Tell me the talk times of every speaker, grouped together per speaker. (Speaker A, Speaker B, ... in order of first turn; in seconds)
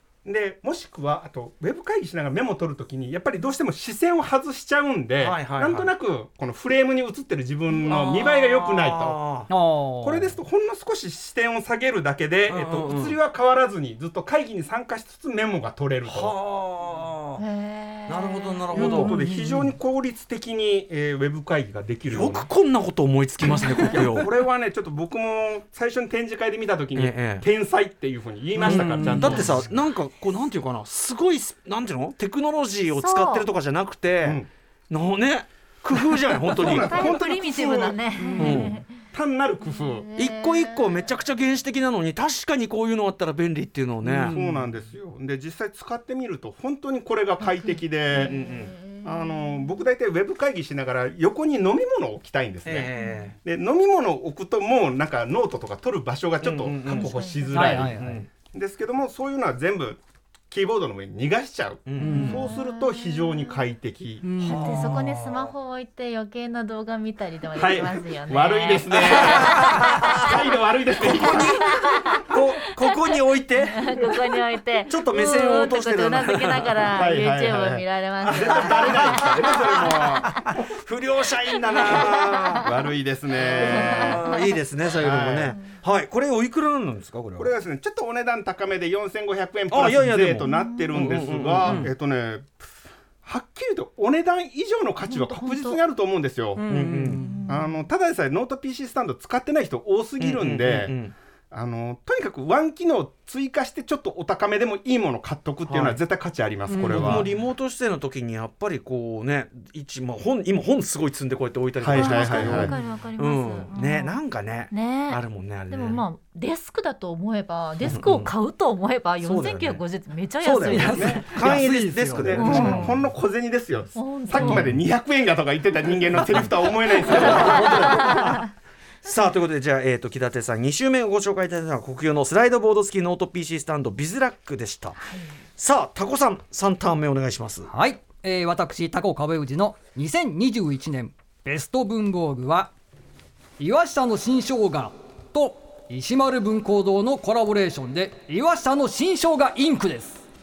Speaker A: 0.2-9.3, 10.0-16.3, 18.7-22.5, 23.9-29.7, 36.4-40.1, 44.2-48.4, 49.0-52.9, 53.4-64.3, 67.5-71.9, 76.9-80.5, 81.9-85.6, 87.4-92.6, 93.2-96.7, 97.5-101.0, 101.5-107.2, 111.8-112.7, 120.8-128.1
Speaker B: 5.2-5.9, 7.8-9.5, 12.5-13.2, 16.0-17.4, 18.1-19.2, 22.1-24.3, 26.9-27.4, 28.6-37.1, 38.4-38.8, 40.1-44.4, 48.1-48.7, 52.6-53.4, 56.4-58.3, 61.9-62.4, 64.4-65.5, 69.0-70.3, 71.0-74.2, 74.9-76.9, 78.2-82.7, 83.3-87.5, 89.7-91.9, 96.7-97.2, 100.2-101.1, 105.7-106.0, 106.8-116.0, 117.8-118.3, 119.2-119.8, 120.4-123.0, 124.4-124.8, 126.2-128.5, 129.0-135.1, 135.6-137.7
Speaker C: 9.5-10.3, 18.8-19.7, 28.6-29.5, 38.3-38.6, 44.0-44.6, 57.5-58.2, 62.0-62.5, 64.2-64.7, 91.6-91.9, 96.6-97.5, 106.7-107.3, 120.7-123.0, 137.7-142.7, 143.6-150.2
Speaker D: 17.4-19.0, 33.0-33.5, 36.6-38.9, 39.6-41.0, 47.4-49.6, 53.0-53.2, 56.8-57.6, 62.0-63.6, 64.4-70.4, 71.2-73.0, 73.6-79.8, 81.7-82.6, 83.6-84.4, 90.4-91.0, 95.0-95.8, 97.2-97.8, 111.9-114.2, 114.7-121.2, 122.3-122.9, 123.9-124.6, 127.1-128.5, 135.0-135.3